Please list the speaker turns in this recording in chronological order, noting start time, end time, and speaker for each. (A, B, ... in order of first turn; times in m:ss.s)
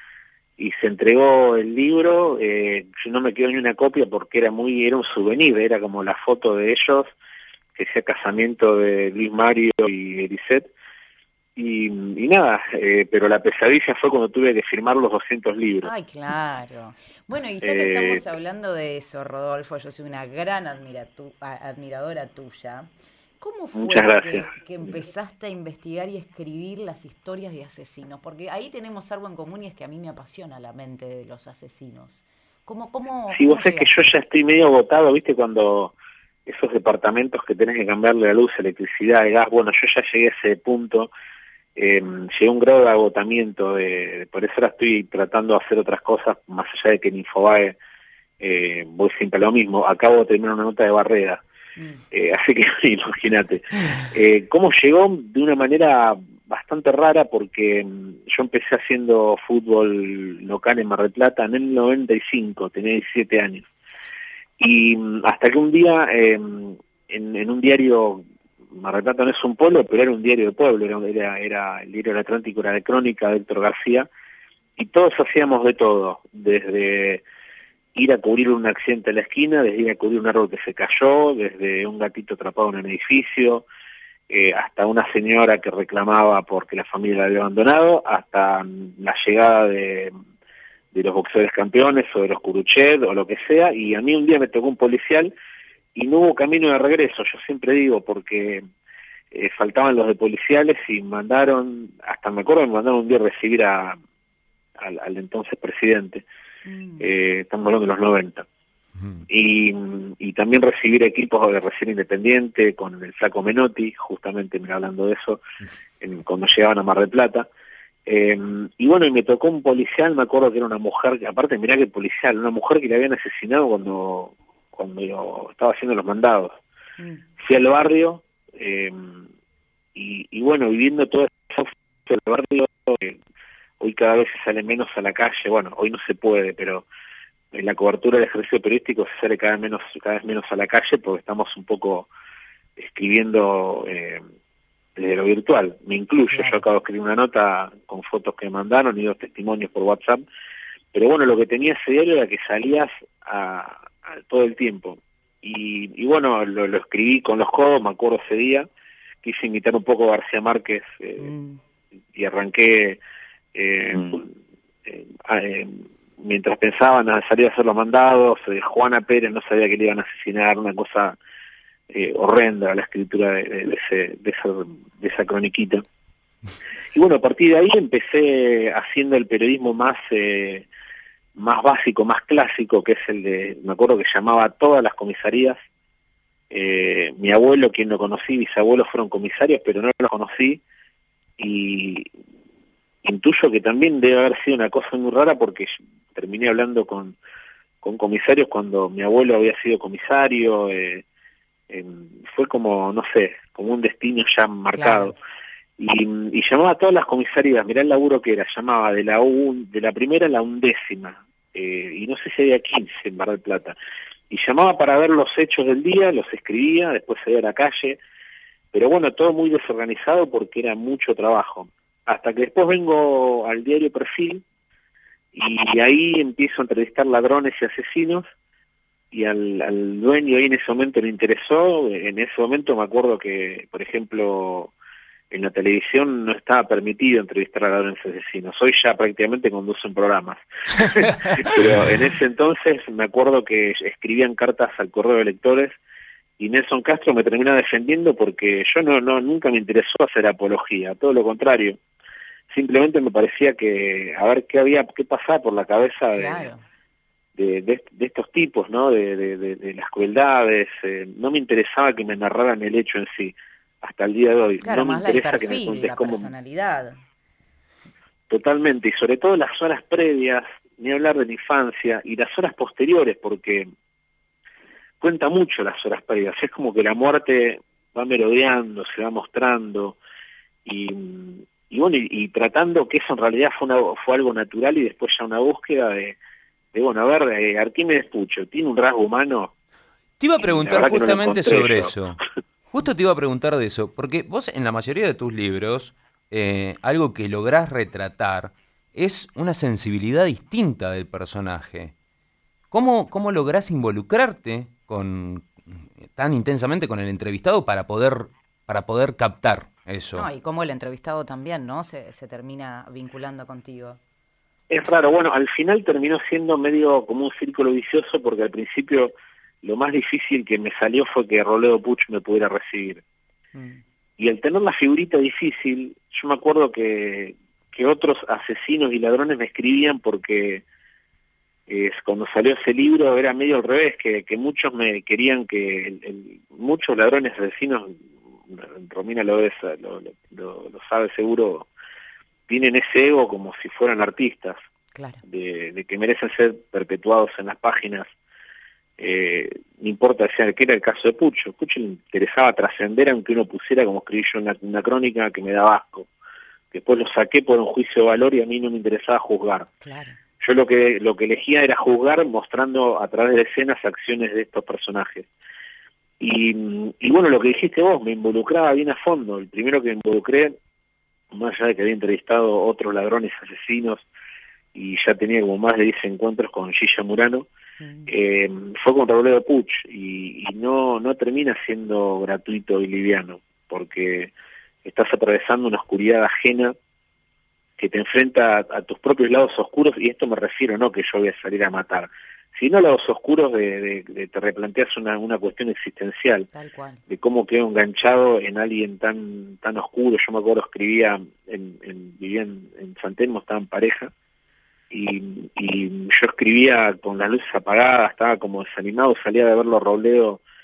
0:00.6-0:07.2 A
0:07.8-0:10.7 A
0:11.6-0:15.9 A
0:15.8-0:22.9 B
0:17.6-0:18.2 A
0:23.4-0:34.1 B
0:23.8-0:24.9 A
0:33.3-0:35.9 A
0:36.5-0:41.1 A
0:41.8-0:47.8 A
0:48.4-0:51.4 A
0:51.8-0:52.0 B
0:52.1-1:03.7 A
1:04.6-1:14.1 A
1:14.8-1:17.2 A
1:17.9-1:23.7 A
1:24.3-1:30.1 A
1:30.9-1:35.3 A
1:35.9-1:38.6 A
1:39.3-1:44.0 A
1:44.8-1:46.2 A
1:46.7-1:47.1 B
1:47.0-1:48.5 A
1:49.0-1:49.2 C
1:49.3-1:55.4 A
1:56.0-1:57.5 A
1:58.1-2:06.6 A
2:07.0-2:07.2 B
2:07.4-2:09.3 A
2:09.9-2:13.2 A
2:13.8-2:16.9 A
2:17.5-2:22.1 A
2:22.8-2:24.2 A
2:25.0-2:30.2 A
2:26.3-2:26.6 B
2:30.9-2:38.7 A
2:39.2-2:41.3 A
2:41.2-2:41.6 B
2:42.1-2:43.0 A
2:43.5-2:44.3 A
2:44.9-2:51.2 A
2:51.9-2:55.8 A
2:56.9-3:00.7 A
3:01.4-3:05.6 A
3:06.5-3:10.6 A
3:11.4-3:12.1 A
3:13.0-3:17.2 A
3:17.8-3:21.0 A
3:21.7-3:25.2 A
3:24.7-3:25.1 B
3:25.8-3:33.8 A
3:34.3-3:38.0 A
3:38.7-3:44.4 A
3:45.3-3:48.3 A
3:49.1-3:54.7 A
3:55.3-4:05.8 A
4:00.8-4:01.7 C
4:06.4-4:11.8 A
4:12.5-4:16.5 A
4:16.1-4:16.6 B
4:17.4-4:26.3 A
4:24.6-4:27.0 B
4:28.3-4:33.7 A
4:35.0-4:40.0 A
4:40.6-4:46.2 A
4:46.7-4:49.5 A
4:50.2-5:01.9 C
4:50.4-4:51.9 A
5:02.7-5:10.3 C
5:10.1-5:14.0 B
5:14.7-5:23.0 A
5:23.5-5:23.8 B
5:24.2-5:30.6 A
5:31.7-5:41.7 A
5:42.5-5:44.6 A
5:44.9-5:45.2 B
5:45.2-5:48.1 A
5:49.0-5:56.1 A
5:56.7-5:59.7 A
5:59.8-6:00.2 B
6:00.4-6:05.3 A
6:06.2-6:10.6 A
6:11.3-6:14.1 A
6:14.7-6:17.5 A
6:17.8-6:18.1 B
6:18.1-6:24.3 A
6:24.8-6:26.8 A
6:27.8-6:36.5 A
6:36.5-6:37.0 B
6:37.1-6:44.1 A
6:44.9-6:50.4 A